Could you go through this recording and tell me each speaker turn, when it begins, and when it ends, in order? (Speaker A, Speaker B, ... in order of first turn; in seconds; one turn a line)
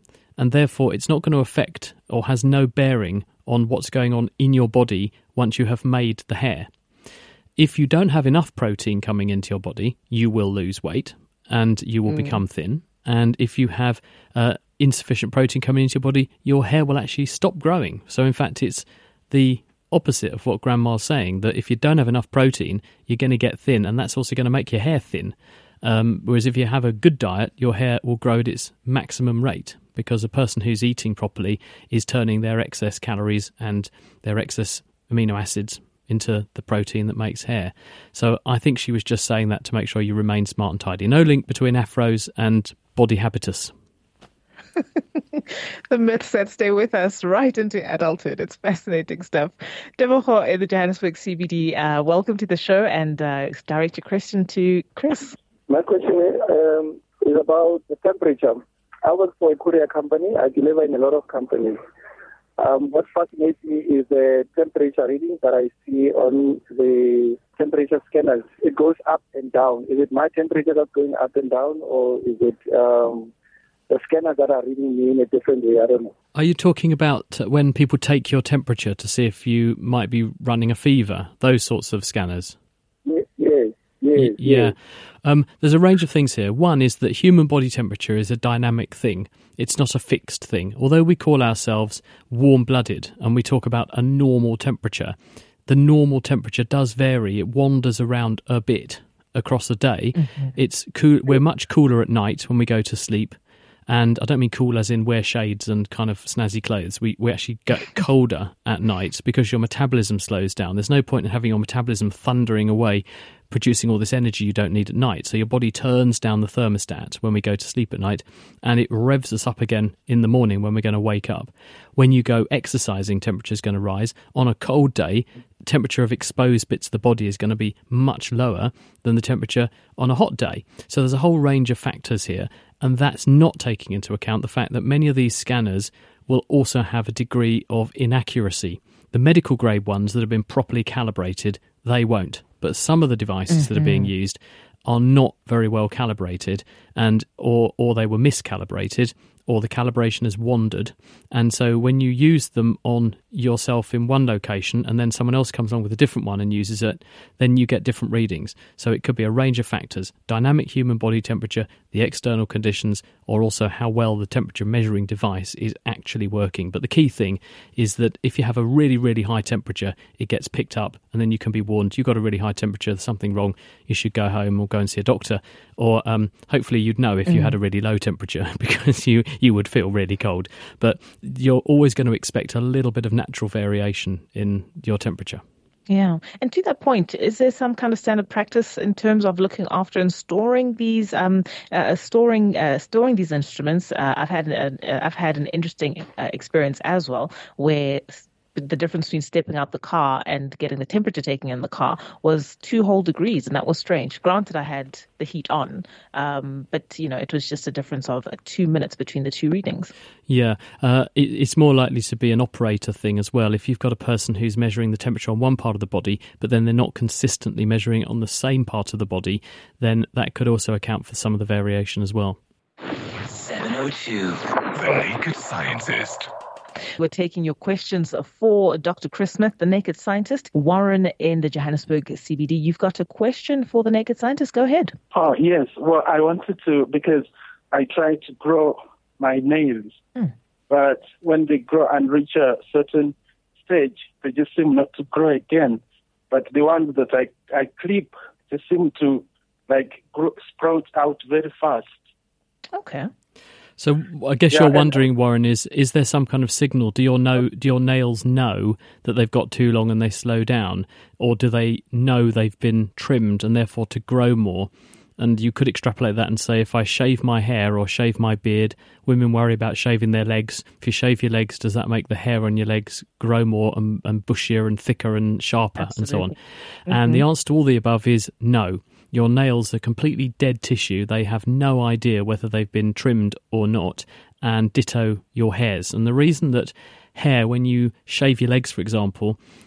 Speaker A: 0.4-6.7
Speaker A: 7.6-43.7
Speaker B: 45.0-55.3
Speaker C: 55.7-56.0
Speaker C: 56.7-61.8
Speaker C: 62.6-73.3
Speaker C: 73.9-76.1
Speaker A: 76.3-82.5
Speaker C: 83.4-84.1
Speaker A: 84.1-95.2
Speaker A: 95.7-103.3
Speaker B: 100.2-100.5
Speaker A: 103.9-185.4
Speaker B: 143.5-144.1
Speaker B: 177.3-177.5
Speaker B: 185.9-209.9
Speaker A: 210.3-222.4
Speaker D: 223.2-226.3
Speaker B: 227.0-234.9
Speaker E: 235.1-240.0
Speaker E: 240.7-252.0
Speaker B: 252.7-253.1
Speaker A: 253.8-276.4
Speaker E: 254.5-254.9
Speaker B: 275.8-276.3
Speaker B: 276.9-277.2
Speaker A: 276.9-289.4